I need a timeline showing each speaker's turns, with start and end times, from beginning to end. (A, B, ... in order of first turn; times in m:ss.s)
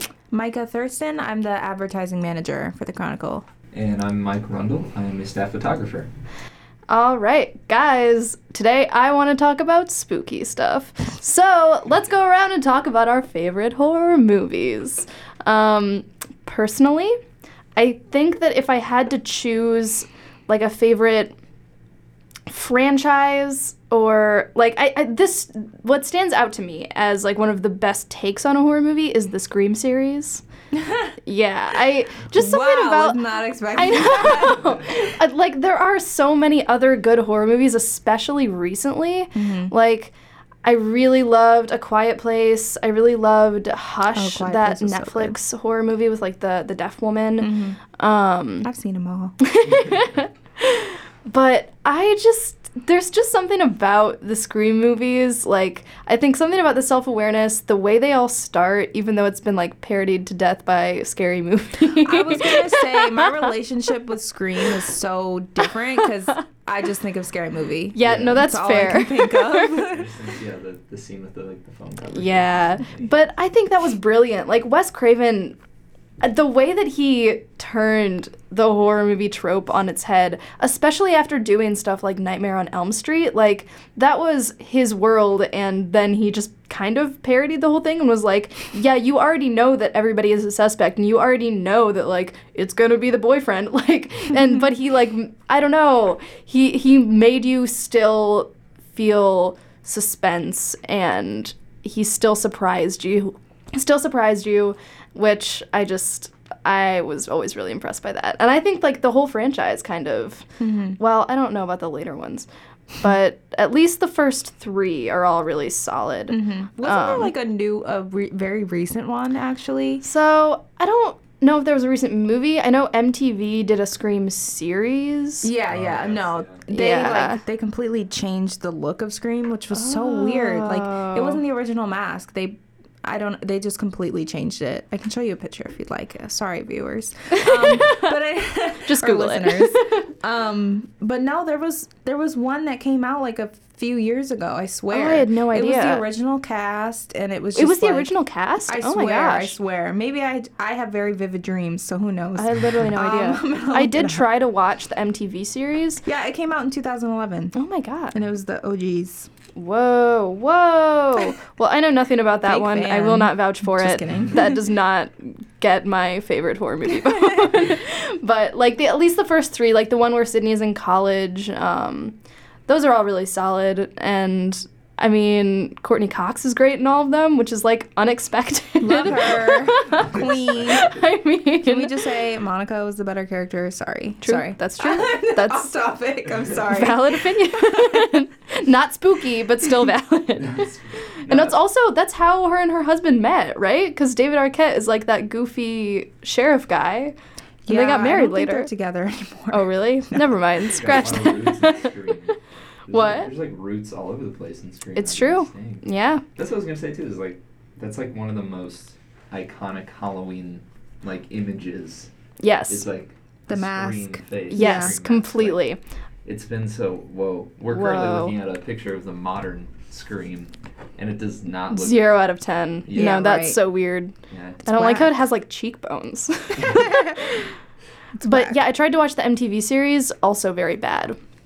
0:00.3-0:03.4 A
0:03.7-0:06.1 B
0:06.9-0:17.2 C
0:17.8-0:21.4 C
0:22.5-0:30.4 C
0:30.7-0:31.1 A
0:31.2-0:33.2 C
0:32.3-0:35.1 A
0:33.7-0:48.7 C
0:39.3-0:39.7 A
0:44.1-0:45.4 A
0:47.4-0:47.8 A
0:48.6-0:49.4 A
0:49.4-1:03.4 C
1:01.9-1:10.1 A
1:07.9-1:09.8 C
1:08.0-1:08.5 B
1:09.8-1:13.2 B
1:12.1-1:15.6 C
1:16.2-1:50.5 C
1:50.6-1:51.0 A
1:51.0-1:57.3 C
1:56.3-2:00.0 A
2:00.0-2:05.5 C
2:05.4-2:28.1 A
2:05.7-2:06.6 B
2:06.7-2:07.4 C
2:09.7-2:11.4 C
2:17.3-2:18.1 C
2:18.8-2:20.1 C
2:24.9-2:26.0 C
2:27.6-2:29.6 C
2:28.6-2:34.2 A
2:32.4-2:36.0 C
2:36.0-2:37.5 A
2:37.5-2:38.1 C
2:38.1-2:39.3 A
2:39.6-3:02.0 C
2:42.4-2:44.6 A
2:44.1-2:44.3 B
2:58.8-3:00.9 A
2:59.9-3:00.9 B
3:01.6-3:08.2 A
3:04.2-3:05.7 C
3:06.7-3:17.1 C
3:10.4-3:11.6 B
3:17.6-3:20.3 A
3:17.7-3:18.7 C
3:19.5-3:22.3 C
3:20.6-3:32.1 B
3:22.9-3:23.3 C
3:25.0-3:26.2 C
3:32.4-3:32.8 C
3:32.7-3:35.7 B
3:33.5-3:34.9 A
3:34.5-3:35.8 C
3:36.2-3:42.1 B
3:37.7-3:38.3 C
3:41.7-3:47.5 C
3:42.9-3:43.2 B
3:42.9-3:43.6 A
3:44.3-3:44.6 B
3:44.6-3:45.2 A
3:46.6-3:46.8 B
3:46.7-3:47.2 A
3:48.2-3:48.6 A
3:48.2-3:51.2 C